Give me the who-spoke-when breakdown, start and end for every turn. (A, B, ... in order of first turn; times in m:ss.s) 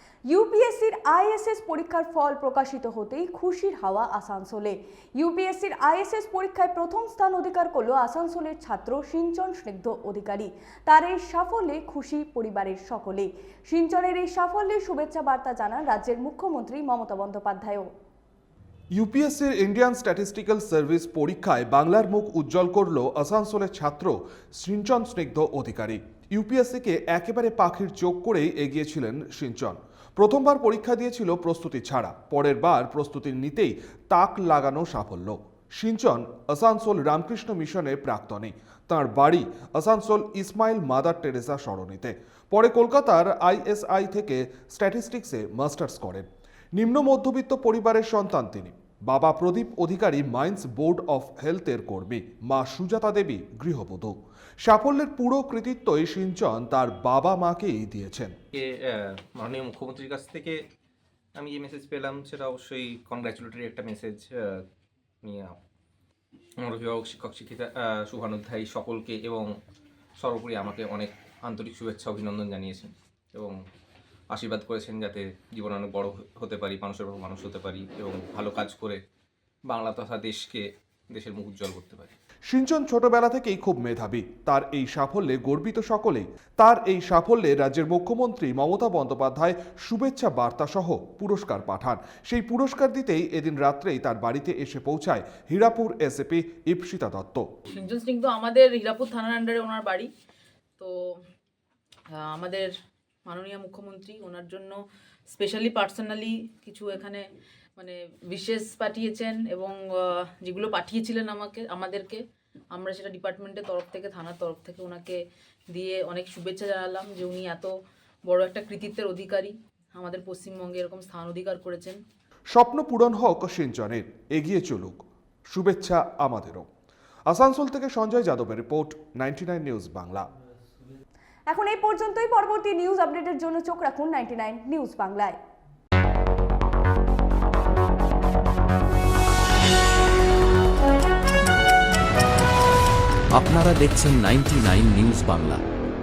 0:00.3-0:17.9 A
0:18.9-0:58.3 B
0:58.5-1:00.6 C
1:01.4-1:04.6 C
1:05.2-1:05.6 C
1:06.6-1:09.5 C
1:10.2-1:13.5 C
1:14.3-1:19.0 C
1:19.7-1:22.1 C
1:22.5-1:37.5 B
1:37.7-1:40.1 D
1:40.8-1:41.2 D
1:42.1-1:42.7 D
1:43.3-1:44.8 D
1:45.3-1:47.2 D
1:47.8-1:52.2 D
1:52.7-1:57.7 D
1:58.3-2:02.0 D
2:02.5-2:06.7 B
2:07.3-2:10.3 B
2:11.5-2:15.4 A
2:23.3-2:25.6 E